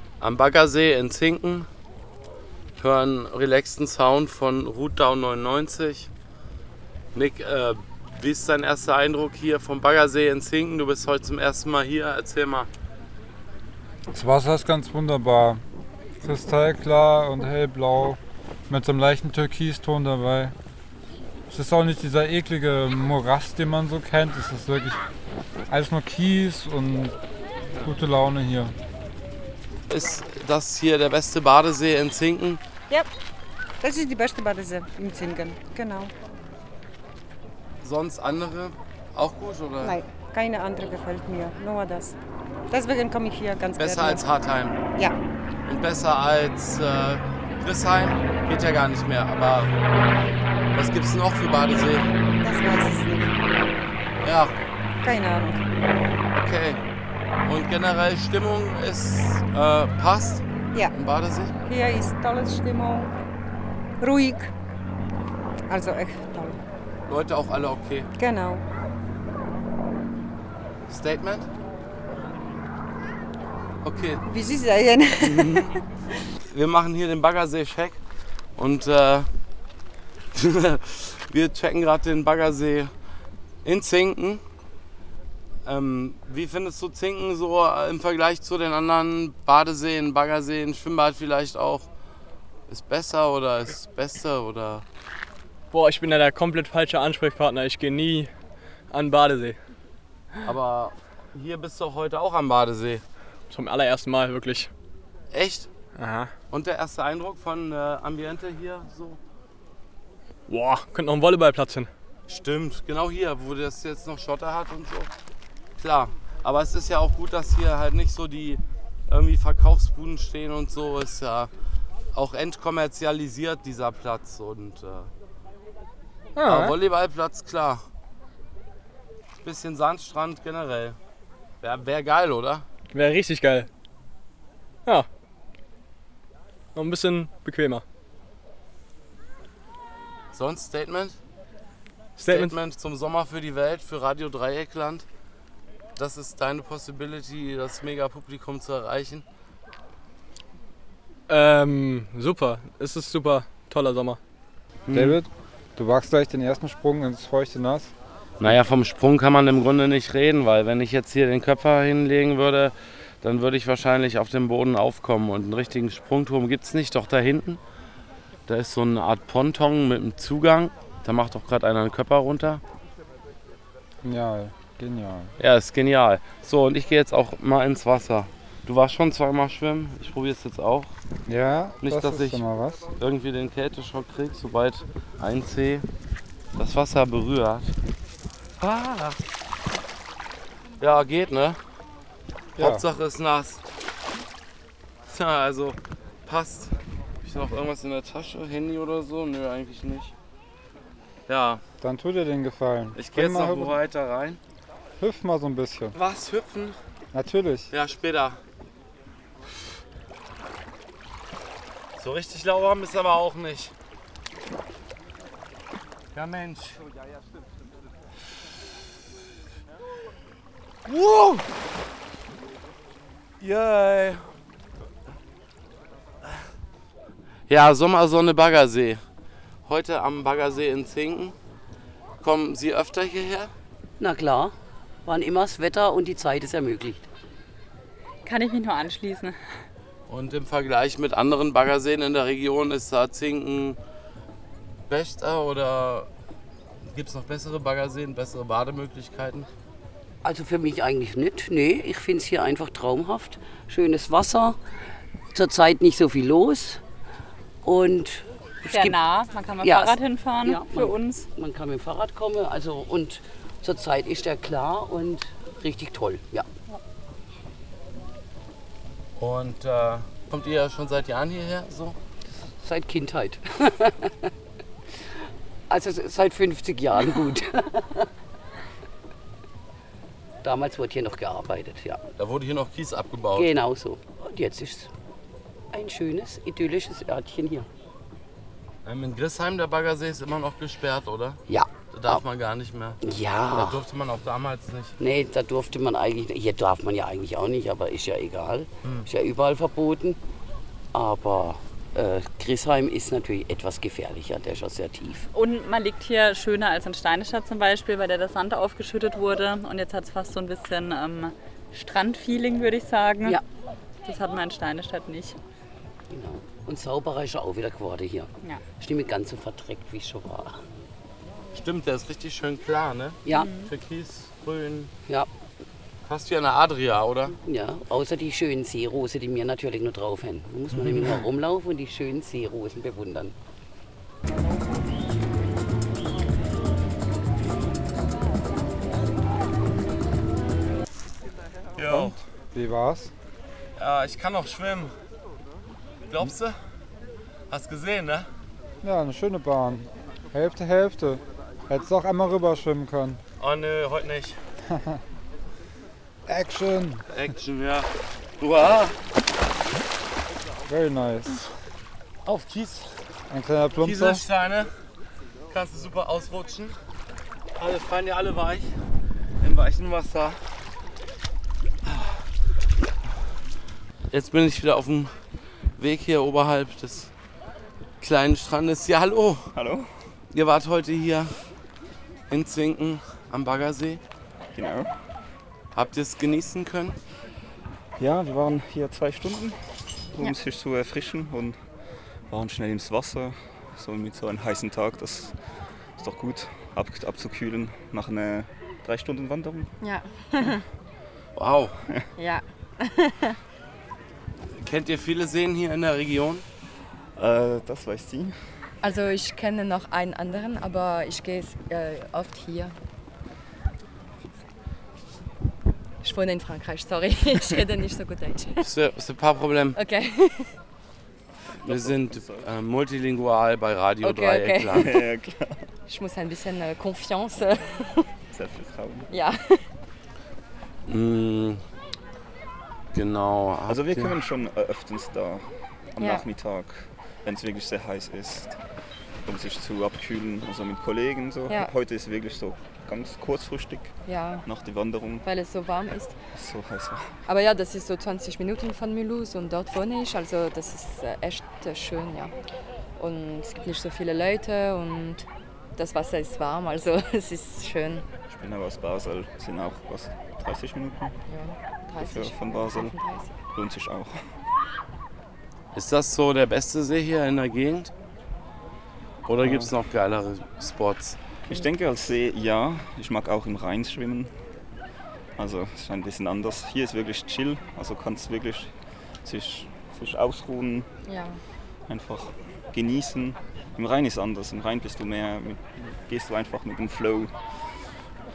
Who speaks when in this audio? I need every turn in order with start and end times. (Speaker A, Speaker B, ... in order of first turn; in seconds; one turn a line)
Speaker A: 0.2-1.7
Speaker A: 2.8-6.1
Speaker A: 7.1-12.7
Speaker B: 14.1-15.6
Speaker B: 16.2-20.5
Speaker B: 21.5-25.0
Speaker B: 25.7-27.1
Speaker B: 27.8-28.7
Speaker A: 29.9-32.6
Speaker C: 33.8-36.1
Speaker A: 37.8-40.0
Speaker C: 39.8-42.2
Speaker C: 42.7-44.2
Speaker A: 43.8-44.8
Speaker A: 45.6-49.8
Speaker A: 50.7-52.1
Speaker C: 52.4-53.3
Speaker A: 54.2-54.5
Speaker C: 55.0-55.6
Speaker A: 56.3-56.8
Speaker A: 57.4-61.5
Speaker C: 61.6-63.1
Speaker C: 64.0-64.5
Speaker C: 65.7-66.6
Speaker A: 67.1-68.1
Speaker C: 68.2-68.6
Speaker A: 70.9-71.5
Speaker A: 73.8-74.2
Speaker C: 74.2-75.8
Speaker A: 75.2-75.7
Speaker A: 76.5-78.0
Speaker A: 78.6-79.3
Speaker A: 80.3-82.9
Speaker A: 83.6-84.4
Speaker A: 85.6-91.9
Speaker A: 92.7-94.8
Speaker D: 95.7-98.3
Speaker D: 98.9-99.6
Speaker A: 100.4-103.0
Speaker D: 103.5-104.7
Speaker A: 105.3-105.7
Speaker D: 106.0-106.3
Speaker A: 106.5-109.2
Speaker D: 110.5-111.9
Speaker A: 112.3-115.1
Speaker A: 115.8-121.5
Speaker A: 122.1-125.1
Speaker D: 126.4-126.7
Speaker A: 126.5-127.8
Speaker A: 129.4-131.0
Speaker A: 131.6-132.6
Speaker D: 132.9-133.7
Speaker D: 136.7-137.8
Speaker A: 140.3-141.2
Speaker D: 142.2-142.6
Speaker A: 142.2-145.1
Speaker A: 146.0-149.2
Speaker D: 151.3-154.2
Speaker A: 154.9-155.2
Speaker B: 154.9-157.9
Speaker A: 158.4-167.6
Speaker A: 168.5-172.6
Speaker B: 174.0-175.3
Speaker A: 175.4-180.9
Speaker B: 181.3-182.8
Speaker A: 181.8-182.4
Speaker A: 182.9-185.8
Speaker A: 186.5-187.7
Speaker A: 188.6-189.2
Speaker A: 190.8-191.6
Speaker A: 192.6-193.6
Speaker A: 195.1-200.1
Speaker A: 201.3-201.6
Speaker B: 201.8-203.8
Speaker A: 202.9-204.4
Speaker B: 205.0-205.9
Speaker A: 205.9-206.8
Speaker B: 207.1-207.7
Speaker A: 207.7-208.4
Speaker A: 212.0-213.7
Speaker A: 216.1-216.8
Speaker A: 220.8-221.4
Speaker A: 223.4-224.3
Speaker A: 227.5-229.0
Speaker A: 229.7-231.3
Speaker A: 232.2-233.5
Speaker E: 234.0-234.5
Speaker E: 235.1-237.1
Speaker F: 238.2-239.4
Speaker A: 240.1-243.8
Speaker A: 244.9-246.1
Speaker A: 246.9-249.5
Speaker E: 250.2-254.6
Speaker E: 255.3-256.8
Speaker E: 257.6-258.8
Speaker F: 258.7-261.3
Speaker E: 259.6-260.7
Speaker E: 261.4-266.4
Speaker A: 269.2-271.9
Speaker E: 272.6-273.9
Speaker E: 275.7-278.0
Speaker E: 280.4-282.0
Speaker A: 282.2-283.6
Speaker E: 283.4-284.9
Speaker E: 285.7-287.7
Speaker A: 288.8-295.0
Speaker E: 291.5-292.2
Speaker E: 293.1-293.7
Speaker E: 295.0-300.2
Speaker A: 298.8-299.1
Speaker E: 300.9-305.2
Speaker F: 305.3-313.4
Speaker F: 314.1-315.4
Speaker E: 316.1-318.3
Speaker E: 318.8-320.6
Speaker A: 321.5-324.9
Speaker F: 323.3-323.7
Speaker A: 326.1-327.4
Speaker E: 327.4-333.3
Speaker A: 330.7-331.3
Speaker A: 341.8-342.1
Speaker B: 341.9-343.1
Speaker A: 343.8-344.9
Speaker A: 346.1-346.5
Speaker A: 347.5-348.3
Speaker B: 348.8-353.2
Speaker A: 353.4-354.4
Speaker B: 354.7-355.0
Speaker B: 356.3-357.0
Speaker A: 357.1-357.9
Speaker A: 358.4-358.9
Speaker B: 360.6-361.4
Speaker A: 362.2-362.9
Speaker B: 363.3-364.2
Speaker A: 363.8-364.7
Speaker A: 365.5-366.7
Speaker A: 367.6-368.7
Speaker A: 369.4-370.4
Speaker A: 371.9-372.1
Speaker A: 374.1-375.1
Speaker A: 375.8-377.1
Speaker A: 378.0-379.4
Speaker G: 379.5-379.9
Speaker A: 380.3-381.3
Speaker A: 382.3-384.0
Speaker G: 384.5-384.9
Speaker A: 385.7-387.0
Speaker G: 388.0-389.6
Speaker G: 390.1-391.6
Speaker G: 392.3-395.3
Speaker G: 396.0-399.7
Speaker H: 399.8-400.6
Speaker A: 401.3-401.8
Speaker H: 402.2-403.4
Speaker A: 404.5-406.4
Speaker G: 407.1-408.3
Speaker H: 408.8-412.7
Speaker H: 416.0-418.7
Speaker A: 418.6-419.8
Speaker H: 419.7-420.5
Speaker G: 421.6-422.5
Speaker A: 421.6-424.9
Speaker H: 424.0-425.0
Speaker G: 424.7-425.6
Speaker H: 425.9-428.1
Speaker G: 428.3-429.1
Speaker H: 429.1-429.6
Speaker A: 430.9-431.6
Speaker A: 432.9-434.1
Speaker G: 433.7-438.6
Speaker H: 436.0-436.2
Speaker G: 439.2-443.9
Speaker H: 444.1-444.4
Speaker G: 444.4-445.2
Speaker H: 445.2-446.1
Speaker G: 446.3-447.0
Speaker H: 447.3-452.3
Speaker H: 453.0-458.1
Speaker G: 458.3-461.2
Speaker H: 461.3-463.3
Speaker G: 462.0-462.9
Speaker G: 463.5-464.2
Speaker A: 465.7-467.9
Speaker A: 469.2-471.2
Speaker G: 469.4-469.7
Speaker G: 471.4-474.3
Speaker G: 475.4-478.7
Speaker G: 479.2-480.9
Speaker H: 481.1-481.4
Speaker G: 481.9-487.3